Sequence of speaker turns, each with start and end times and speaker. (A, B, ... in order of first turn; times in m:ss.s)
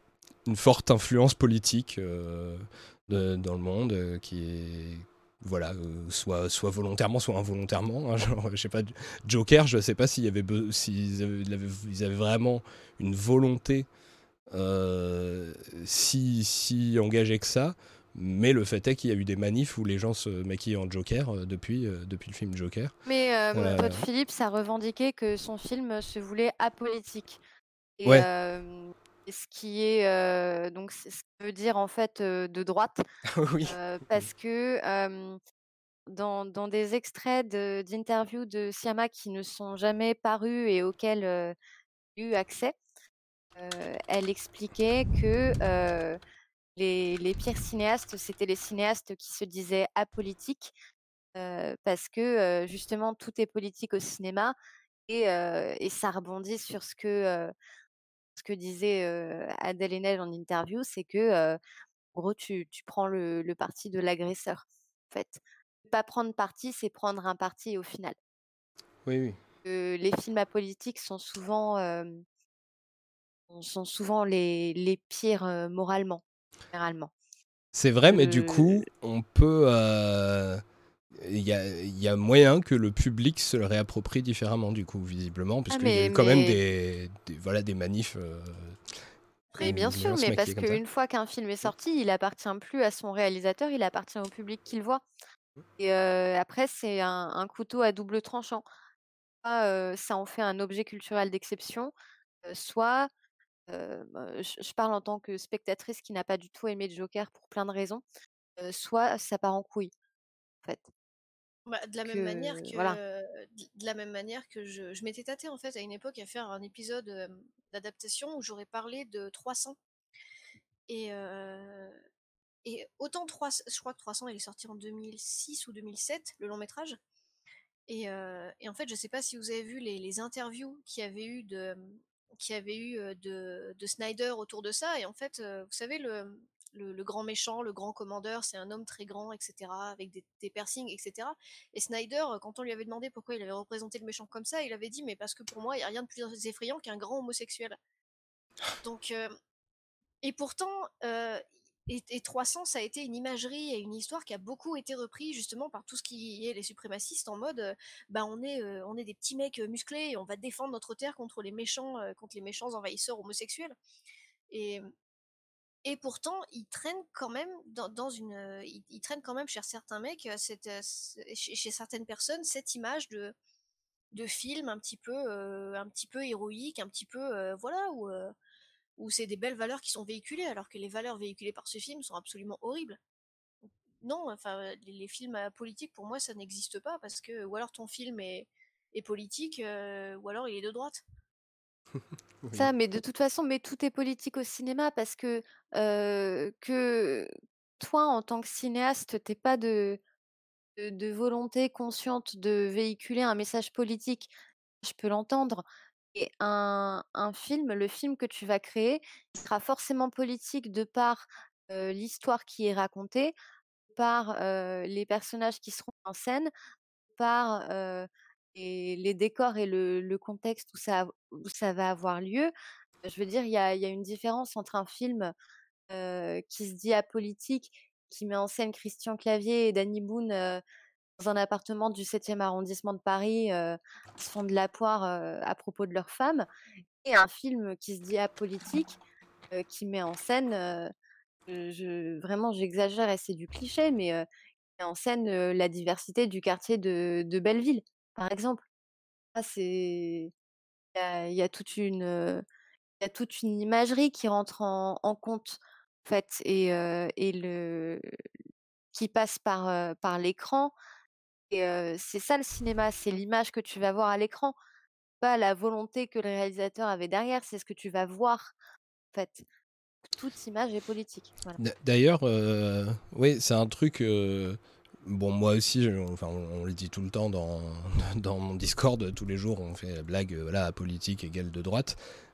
0:00.4-0:13.9 A
0:14.5-0:22.9 A
0:23.1-0:27.4 B
0:23.6-0:24.0 A
0:28.0-0:33.0 B
0:33.3-0:34.3 A
0:33.6-0:35.4 B
0:36.1-0:41.6 B
0:42.1-0:42.8 B
0:43.6-0:46.2 B
0:46.7-0:50.7 B
0:51.4-0:54.6 B
0:55.1-0:57.5 B
0:58.4-1:01.6 B
1:02.1-1:08.2 B
1:09.1-1:09.4 A
1:09.6-1:12.2 B
1:13.5-1:17.1 B
1:17.7-1:28.8 A
1:18.1-1:18.8 B
1:25.7-1:26.6 B
1:29.5-1:35.0 B
1:29.6-1:30.8 A
1:35.8-1:38.6 B
1:39.4-1:41.9 B
1:42.4-1:43.1 B
1:43.7-1:48.0 B
1:48.6-1:49.9 B
1:50.6-1:50.9 B
1:51.7-1:59.8 C
1:52.0-1:53.0 B
2:00.9-2:02.0 C
2:02.6-2:07.0 C
2:07.9-2:27.8 C
2:28.8-2:29.3 C
2:30.2-2:43.7 C
2:44.5-2:44.8 C
2:45.8-2:53.3 C
2:54.1-2:58.3 C
2:59.0-3:03.0 C
3:04.0-3:11.0 C
3:12.4-3:12.7 A
3:12.5-3:20.0 B
3:20.8-3:33.3 B
3:33.9-3:36.5 B
3:37.2-3:42.5 B
3:43.0-3:45.3 B
3:45.9-3:50.6 B
3:51.2-3:56.4 B
3:57.0-3:59.0 B
3:59.5-4:00.9 B
4:01.5-4:04.2 B
4:04.8-4:08.6 B
4:09.4-4:10.3 B
4:10.9-4:12.4 B
4:13.0-4:18.1 B
4:18.9-4:20.7 B
4:21.5-4:24.6 B
4:25.2-4:28.5 B
4:29.1-4:29.4 B
4:30.1-4:31.6 B
4:31.6-4:42.0 A